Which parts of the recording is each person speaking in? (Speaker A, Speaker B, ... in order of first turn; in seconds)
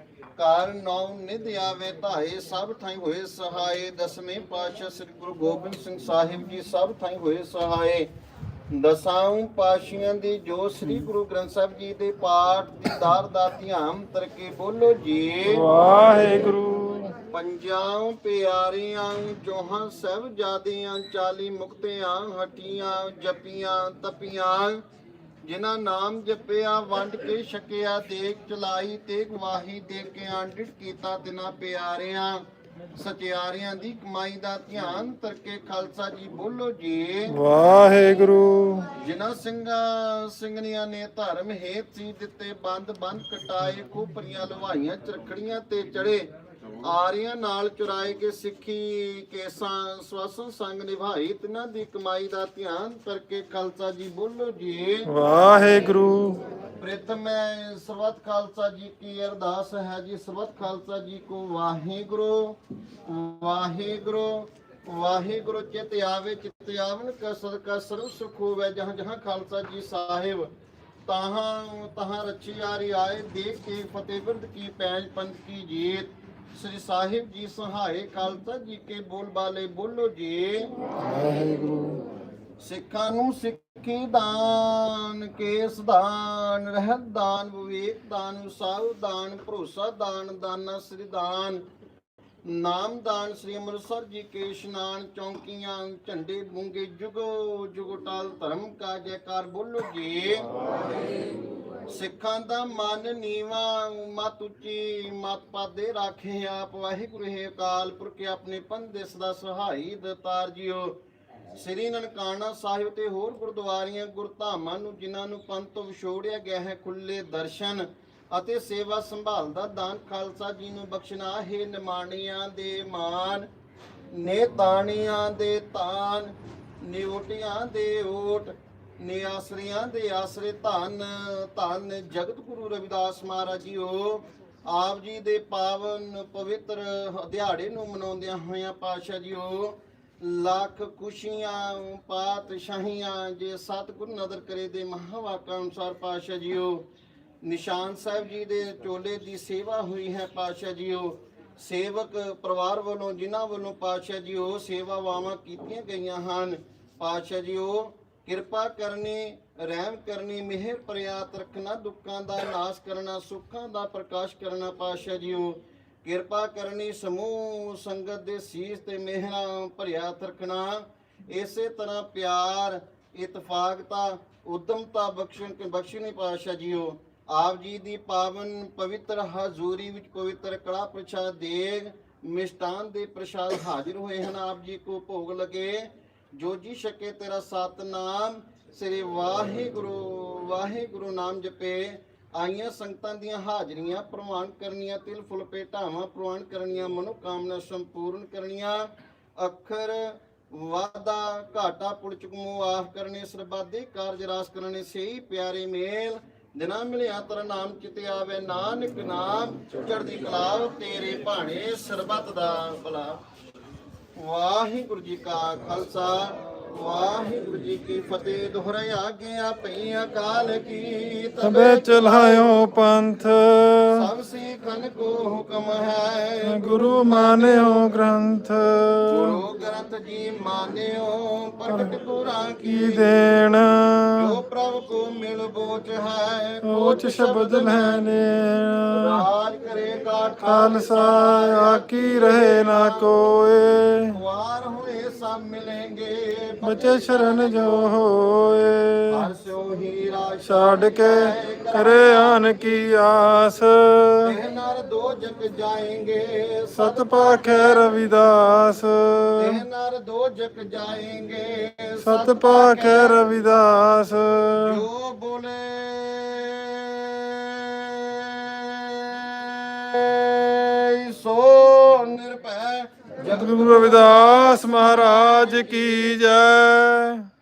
Speaker A: 0.4-8.1, 8.7-15.6, 17.3-24.8, 25.4-37.4, 39.0-46.3, 46.8-55.1, 56.8-70.5, 71.1-80.7, 82.6-91.7, 92.5-100.5, 101.9-111.0, 111.6-123.5, 124.1-146.9, 147.4-213.2, 214.2-222.5, 223.9-227.8, 229.1-233.1, 234.2-238.1, 238.9-243.1, 244.1-247.8, 249.1-252.4, 254.2-257.9, 259.4-263.2, 264.7-275.5
Speaker B: 15.5-17.1, 37.3-38.9, 55.1-56.4, 81.0-82.0, 221.4-224.1, 226.4-229.4, 232.7-234.3, 236.6-239.2, 240.4-244.2, 246.6-249.3, 250.5-254.3, 256.8-259.6, 262.0-264.8, 273.2-277.3